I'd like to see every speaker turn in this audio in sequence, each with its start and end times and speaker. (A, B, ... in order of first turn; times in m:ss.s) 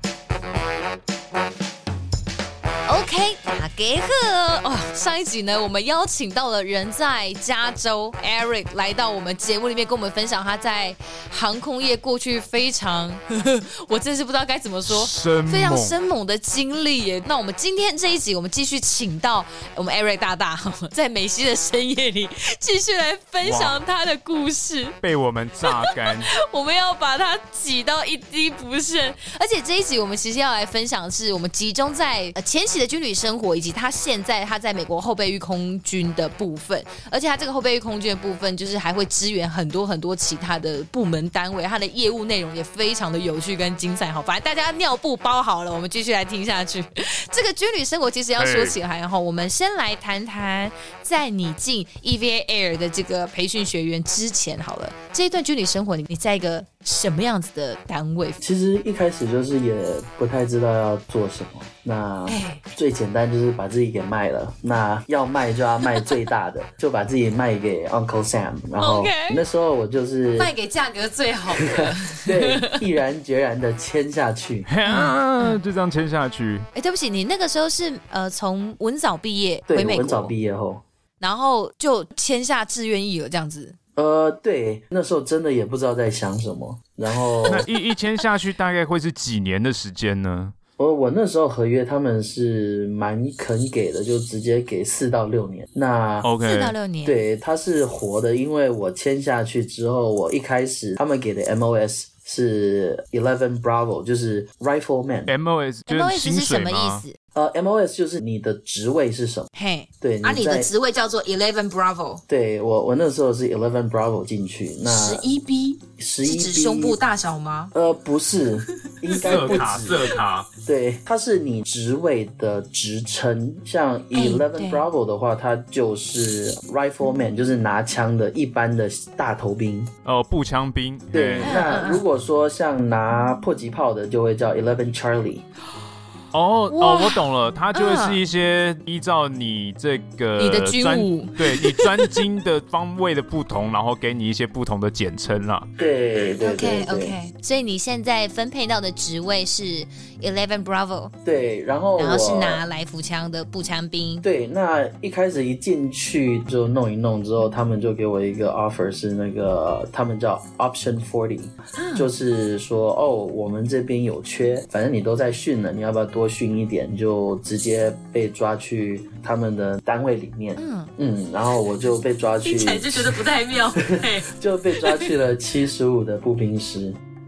0:02.9-0:25.0 A
0:14.9-0:16.0 B
0:23.4-0:23.8 B
0:25.0-0:26.3 B
0:25.6-0:58.4 A
0:48.4-0:48.8 B
0:58.4-1:10.5 C
1:02.3-1:02.6 A
1:08.8-1:09.4 A
1:10.4-1:12.7 A
1:11.5-1:14.7 C
1:14.7-1:16.7 B
1:14.8-1:15.6 A
1:16.7-1:20.3 A
1:19.7-1:20.8 C
1:21.2-1:23.8 A
1:24.0-1:27.6 C
1:27.5-1:30.5 B
1:30.8-1:36.3 C
1:36.2-1:36.7 B
1:36.4-1:37.2 A
1:37.0-1:45.3 C
1:45.3-1:47.0 B
1:45.9-1:47.1 A
1:47.3-1:49.5 C
1:49.5-1:52.2 A
1:50.0-1:50.7 C
1:52.3-1:55.2 C
1:54.8-1:57.7 A
1:56.0-1:57.0 C
1:57.7-2:09.9 C
1:59.1-1:59.7 A
1:59.2-2:00.5 B
2:04.1-2:04.9 A
2:10.0-2:11.6 B
2:11.1-2:15.4 C
2:11.4-2:12.0 A
2:16.3-2:25.7 B
2:16.7-2:18.2 A
2:20.4-2:22.2 A
2:25.8-2:27.2 C
2:26.4-2:31.1 A
2:31.2-2:32.6 C
2:32.0-2:34.2 A
2:34.2-2:53.2 C
2:41.8-2:42.1 A
2:50.6-2:50.9 A
2:52.4-2:55.1 A
2:53.8-2:57.0 C